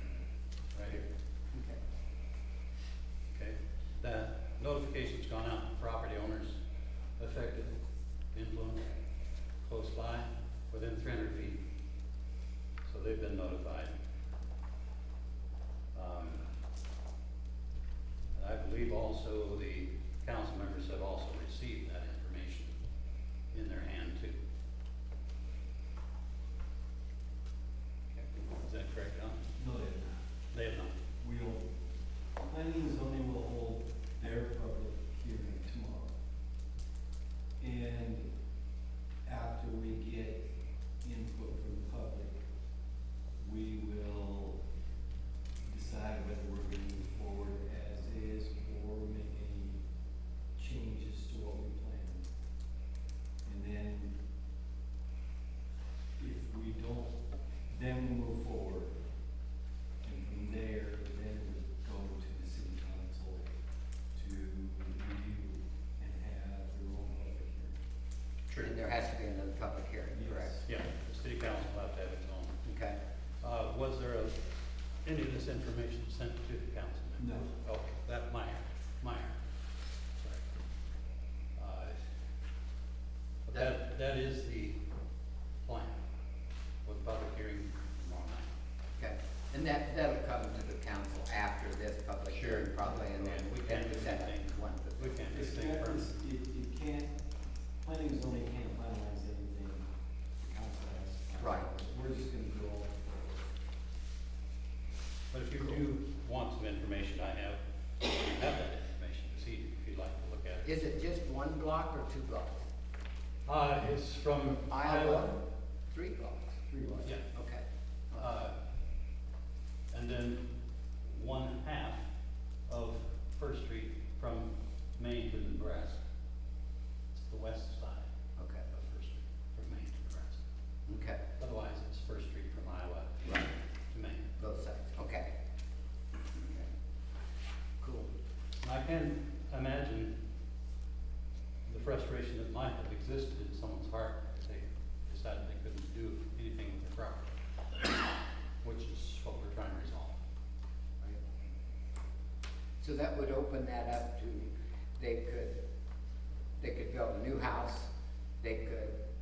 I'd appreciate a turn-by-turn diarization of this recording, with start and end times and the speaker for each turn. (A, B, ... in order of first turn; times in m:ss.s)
0:00.7-0:01.0 A
0:00.9-0:01.8 B
0:03.3-0:06.6 A
0:07.2-0:07.8 A
0:08.3-0:08.9 A
0:09.6-0:11.6 A
0:12.8-0:13.9 A
0:15.9-0:16.4 A
0:18.3-0:22.7 A
0:23.5-0:24.4 A
0:28.6-0:29.4 A
0:29.6-0:30.2 C
0:30.5-0:30.9 A
0:31.2-0:31.7 C
0:32.4-0:36.1 C
0:37.6-0:38.3 C
0:39.2-0:40.5 C
0:41.0-0:42.4 C
0:43.4-0:44.6 C
0:45.6-0:49.8 C
0:50.6-0:52.2 C
0:53.4-0:54.2 C
0:56.2-0:57.2 C
0:57.7-0:59.0 C
1:00.0-1:03.5 C
1:04.1-1:07.8 C
1:08.6-1:10.5 B
1:10.1-1:10.7 C
1:10.6-1:12.6 A
1:12.6-1:13.0 B
1:13.4-1:14.4 A
1:15.0-1:19.4 A
1:17.2-1:17.5 C
1:20.2-1:20.4 A
1:21.6-1:22.0 A
1:23.4-1:24.8 A
1:25.6-1:26.0 A
1:26.8-1:28.5 A
1:29.0-1:35.2 B
1:32.3-1:36.0 A
1:35.3-1:37.2 C
1:37.8-1:39.9 C
1:40.4-1:43.5 C
1:41.4-1:41.7 B
1:45.3-1:50.8 A
1:50.6-1:52.6 B
1:53.4-1:55.3 A
1:54.7-1:56.6 B
1:56.7-1:57.1 C
1:57.3-1:58.2 B
1:58.1-1:58.6 A
1:59.9-2:00.5 A
2:01.0-2:02.0 A
2:02.7-2:06.0 A
2:07.1-2:08.1 A
2:08.4-2:08.7 B
2:08.8-2:10.4 A
2:10.9-2:11.2 B
2:11.4-2:14.3 A
2:14.4-2:15.3 B
2:16.3-2:16.7 B
2:17.8-2:18.1 B
2:18.6-2:20.2 A
2:21.7-2:30.2 A
2:32.8-2:35.6 B
2:36.6-2:37.9 B
2:38.4-2:38.9 B